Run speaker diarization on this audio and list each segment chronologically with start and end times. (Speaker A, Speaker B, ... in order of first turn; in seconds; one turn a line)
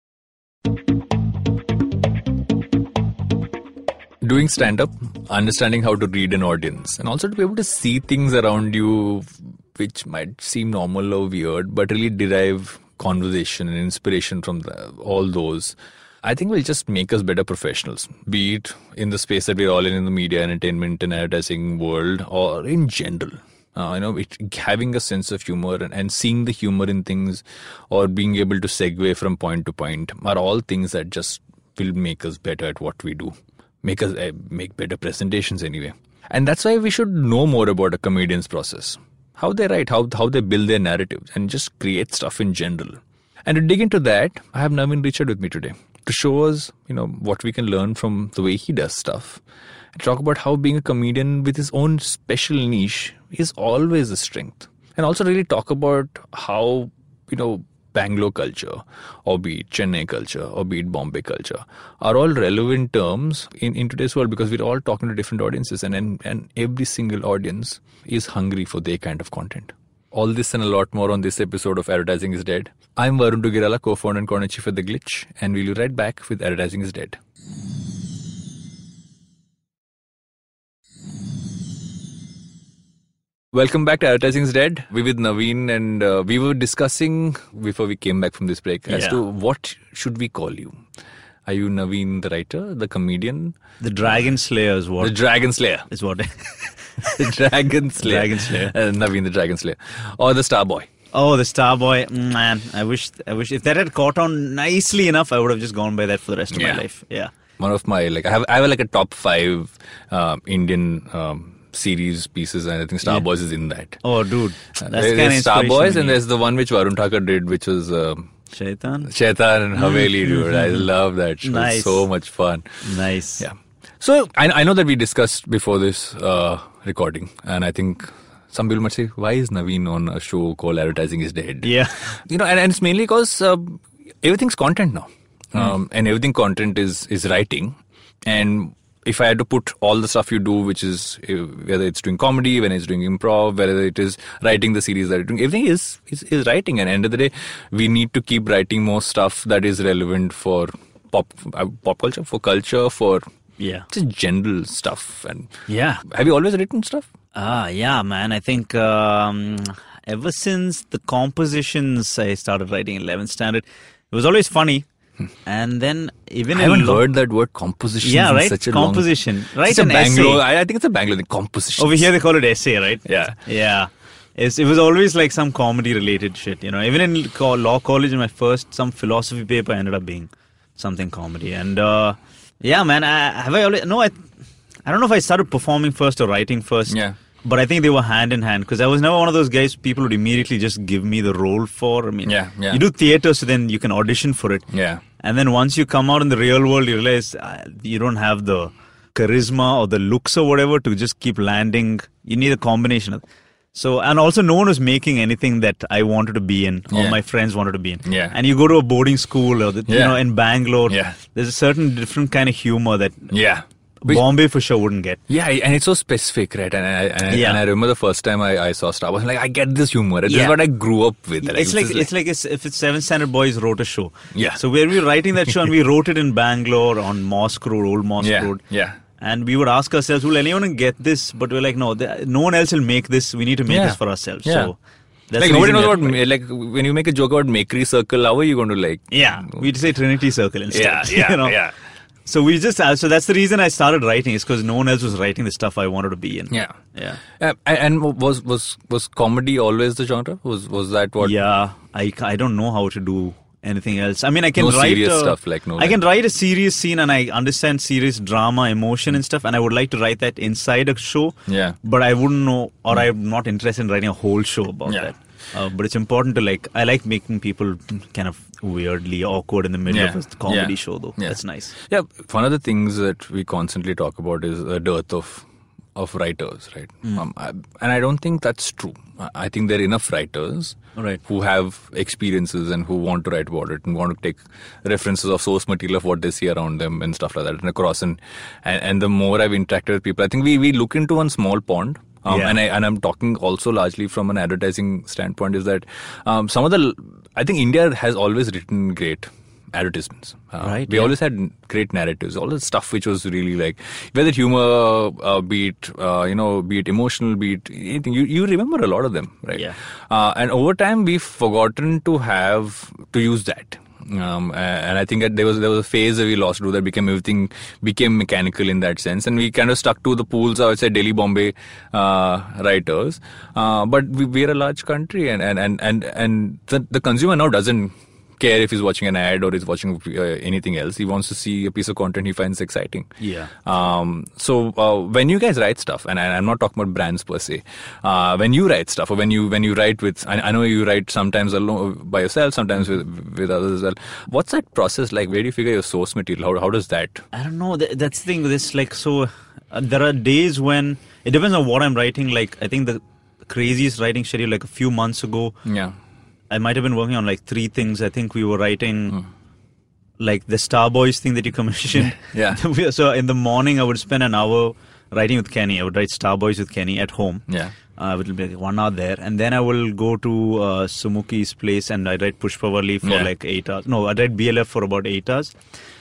Speaker A: 4.2-49.4
Speaker A: 50.0-77.2
Speaker A: 83.5-90.8
Speaker B: 88.9-89.2
Speaker A: 91.5-93.6
Speaker B: 93.8-95.2
Speaker A: 95.0-95.9
Speaker B: 95.9-97.3
Speaker A: 97.0-100.9
Speaker B: 98.0-98.7
Speaker B: 101.1-107.3
Speaker A: 106.5-106.8
Speaker A: 107.6-114.0
Speaker B: 114.0-116.2
Speaker A: 114.8-118.3
Speaker B: 118.5-119.1
Speaker A: 119.1-122.7
Speaker B: 119.8-120.9
Speaker B: 121.4-122.0
Speaker B: 122.8-123.5
Speaker A: 123.4-153.2
Speaker B: 131.6-132.2
Speaker B: 153.6-153.9
Speaker A: 153.9-157.1
Speaker B: 155.7-156.0
Speaker B: 157.3-164.9
Speaker B: 165.5-167.0
Speaker A: 166.5-169.1
Speaker B: 168.0-170.4
Speaker A: 169.6-172.1
Speaker B: 171.8-184.2
Speaker A: 173.1-173.4
Speaker B: 184.9-194.7
Speaker A: 186.9-187.2
Speaker A: 192.3-192.8
Speaker A: 194.7-195.0
Speaker B: 195.2-203.2
Speaker B: 203.7-213.3
Speaker A: 206.9-207.2
Speaker A: 208.1-208.3
Speaker A: 209.9-210.2
Speaker A: 210.9-211.2
Speaker A: 213.3-214.2
Speaker B: 214.0-215.2
Speaker A: 215.3-222.1
Speaker B: 217.3-217.6
Speaker B: 220.3-220.6
Speaker B: 221.4-228.6
Speaker A: 224.3-224.6
Speaker A: 228.2-229.0
Speaker B: 229.2-234.8
Speaker A: 233.7-234.7
Speaker B: 235.3-236.2
Speaker A: 235.4-239.7
Speaker B: 239.1-241.6
Speaker A: 240.7-241.8
Speaker B: 242.3-247.2
Speaker A: 246.5-246.8
Speaker A: 247.3-251.4
Speaker B: 251.2-271.8
Speaker A: 254.6-256.0
Speaker A: 261.5-261.8
Speaker A: 269.9-333.1
Speaker B: 292.3-292.6
Speaker B: 300.6-301.1
Speaker B: 333.2-333.5
Speaker A: 333.6-347.2
Speaker B: 347.3-355.6
Speaker A: 355.6-356.0
Speaker B: 356.5-359.2
Speaker B: 360.2-367.4
Speaker A: 362.2-362.6
Speaker A: 367.5-367.7
Speaker B: 368.0-375.5
Speaker A: 373.0-373.3